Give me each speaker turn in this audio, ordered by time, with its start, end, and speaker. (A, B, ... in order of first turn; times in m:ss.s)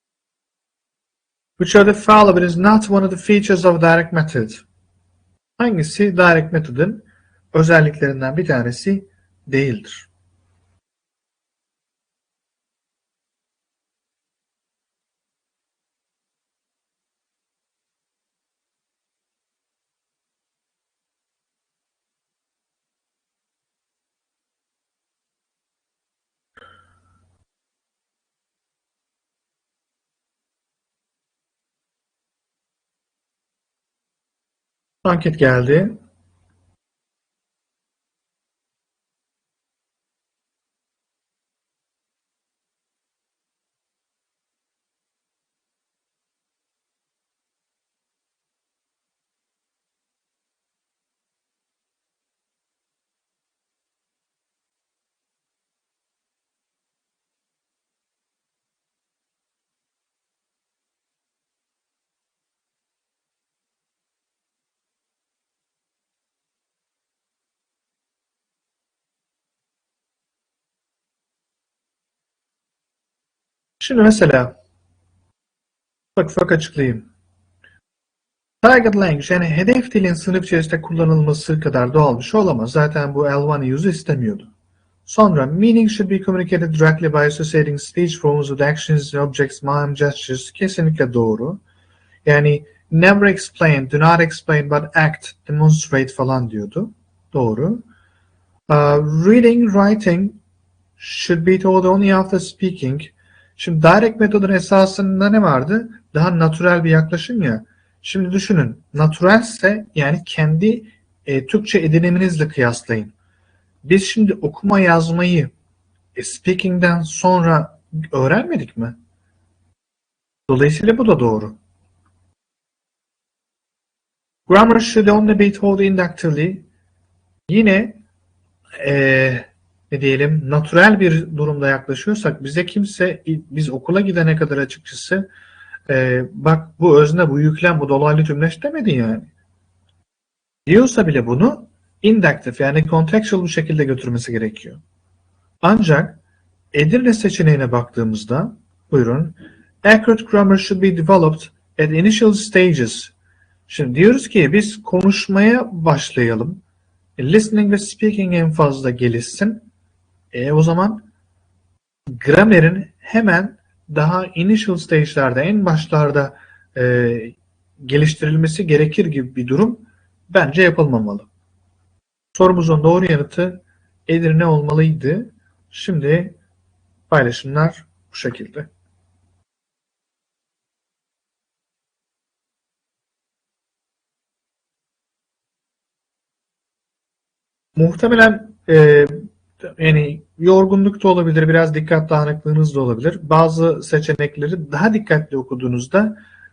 0:01.6-0:04.6 A
0:05.6-0:10.1 A
0:35.0-0:36.0 A
1:13.8-1:14.6 A
1:16.2-1:17.1 A
1:18.6-1:24.5 A
1:25.0-1:31.6 A
1:32.2-1:37.8 A
1:38.7-1:40.4 A
1:41.0-1:53.1 A
1:53.8-1:55.5 A
1:56.1-1:59.0 A
2:00.5-2:01.6 A
2:04.5-2:06.6 A
2:07.5-2:08.0 A
2:08.8-2:15.3 A
2:15.9-2:19.3 A
2:20.7-2:24.8 A
2:25.6-2:26.2 A
2:26.7-2:33.1 A
2:33.7-2:36.6 A
2:37.2-2:39.6 A
2:40.3-2:41.0 A
2:42.1-2:51.3 A
2:52.3-2:56.4 A
2:57.1-2:58.7 A
3:07.8-3:16.2 A